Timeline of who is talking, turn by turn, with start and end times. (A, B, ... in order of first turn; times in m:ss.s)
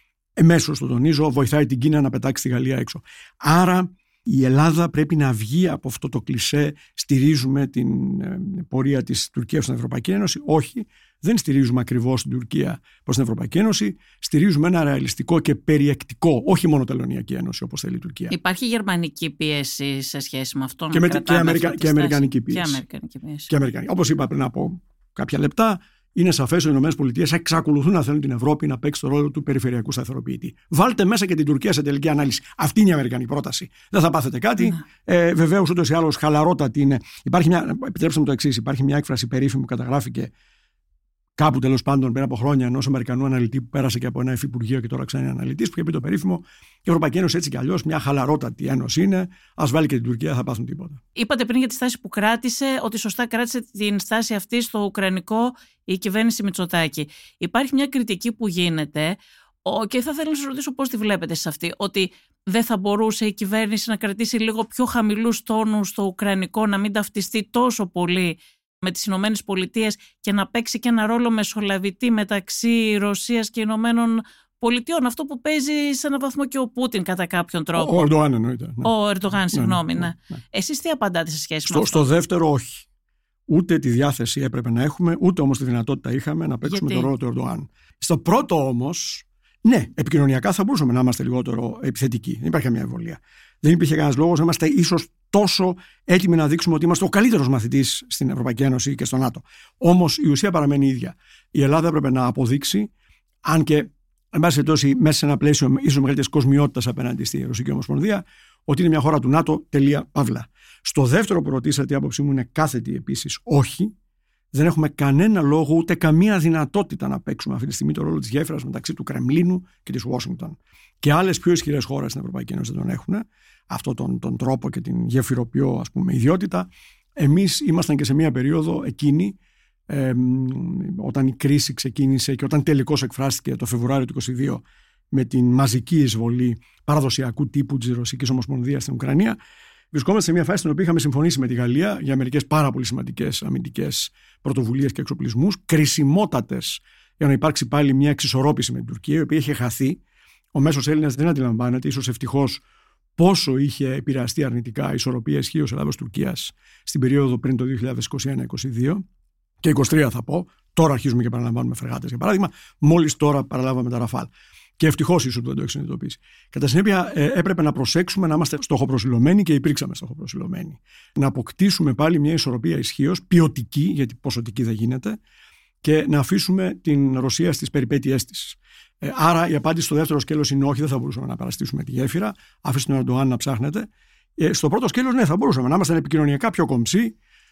0:00.4-0:18.3 A
0:18.3-0:23.5 B
0:20.9-0:22.8 A
0:23.5-0:40.3 A
0:41.4-0:51.0 A
0:51.2-1:18.1 B
1:17.8-1:20.2 A
1:18.8-1:22.1 B
1:21.7-1:22.9 A
1:23.5-1:42.9 A
1:26.6-1:27.1 B
1:43.4-1:53.9 A
1:54.5-2:09.4 A
2:09.9-2:19.4 A
2:19.9-2:30.0 A
2:30.5-2:32.6 A
2:33.2-2:39.0 A
2:39.6-2:55.2 A
2:55.8-3:07.2 A